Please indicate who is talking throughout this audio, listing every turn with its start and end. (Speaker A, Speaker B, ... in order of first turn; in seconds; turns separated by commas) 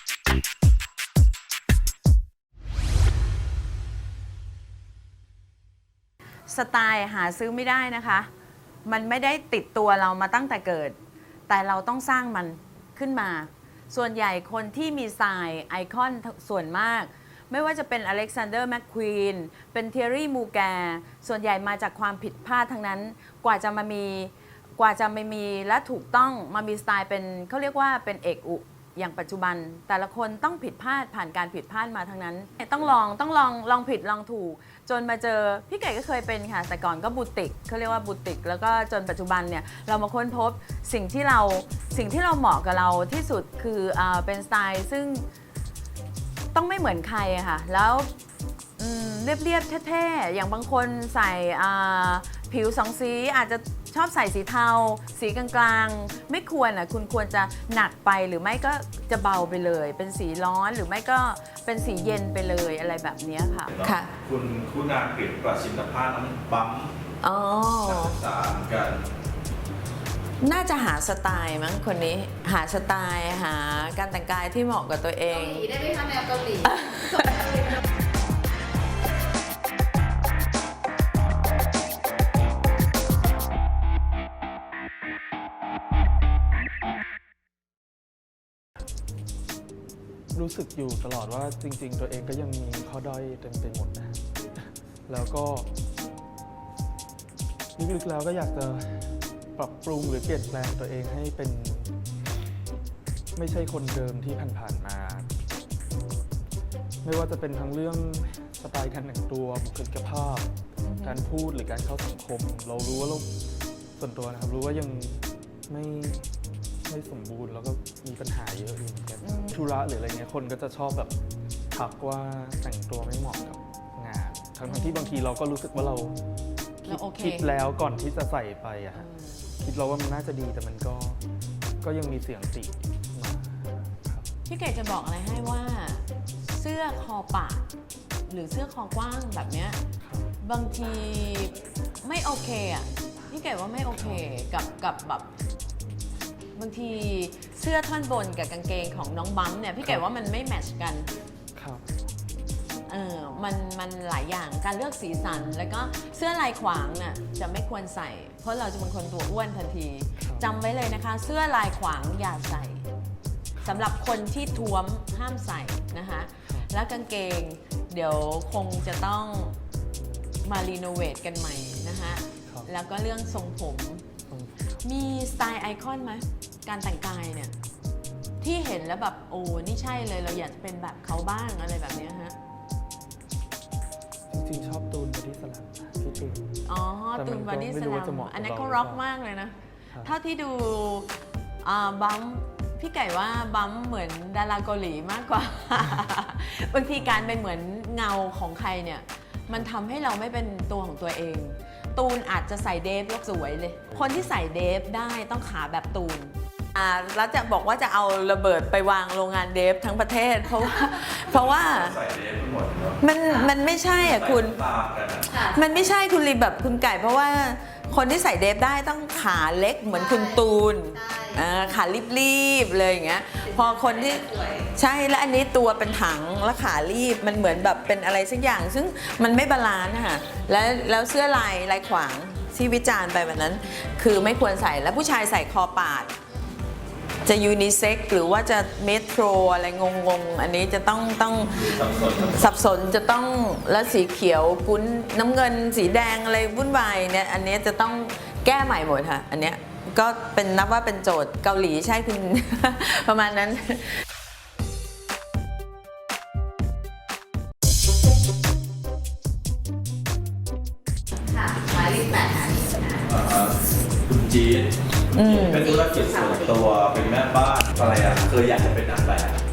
Speaker A: 6.5-8.3, Speaker A: 8.8-11.0, Speaker A: 11.5-45.2, Speaker A: 46.5-48.1, Speaker A: 48.8-64.1, Speaker B: 63.7-66.9, Speaker A: 67.2-68.2, Speaker B: 67.8-69.0, Speaker A: 70.4-75.7, Speaker C: 75.3-77.8, Speaker A: 76.7-77.3, Speaker D: 90.3-95.7, Speaker D: 97.8-101.9, Speaker D: 103.3-105.3, Speaker D: 107.0-110.5, Speaker A: 110.8-111.2, Speaker D: 111.0-113.3, Speaker D: 114.0-116.3, Speaker D: 116.8-121.1, Speaker A: 119.2-119.6, Speaker D: 121.7-126.2, Speaker A: 124.7-125.2, Speaker D: 126.8-129.1, Speaker A: 126.9-127.5, Speaker A: 128.9-129.3, Speaker D: 129.6-131.2, Speaker D: 131.8-134.3, Speaker A: 134.5-137.7, Speaker A: 138.3-139.8, Speaker D: 140.0-140.3, Speaker A: 140.4-145.2, Speaker D: 143.9-144.2, Speaker A: 146.6-151.1, Speaker D: 151.5-151.9, Speaker A: 152.9-162.8, Speaker D: 160.2-160.5, Speaker D: 163.6-163.9, Speaker A: 163.6-169.6, Speaker A: 170.4-174.0, Speaker D: 174.3-174.8, Speaker A: 174.8-177.5, Speaker A: 178.4-182.3, Speaker D: 184.3-186.5, Speaker A: 186.7-191.1, Speaker D: 187.2-189.1, Speaker A: 191.6-211.9, Speaker D: 197.0-197.4, Speaker B: 211.3-213.0, Speaker A: 213.0-214.6, Speaker B: 213.9-215.4, Speaker C: 215.3-215.6, Speaker A: 215.5-236.1, Speaker C: 219.9-221.5, Speaker C: 223.4-224.7, Speaker A: 237.2-241.7, Speaker B: 241.4-242.5, Speaker A: 242.2-253.9, Speaker C: 261.3-263.1, Speaker B: 263.1-269.4, Speaker A: 265.1-265.7, Speaker C: 265.6-266.6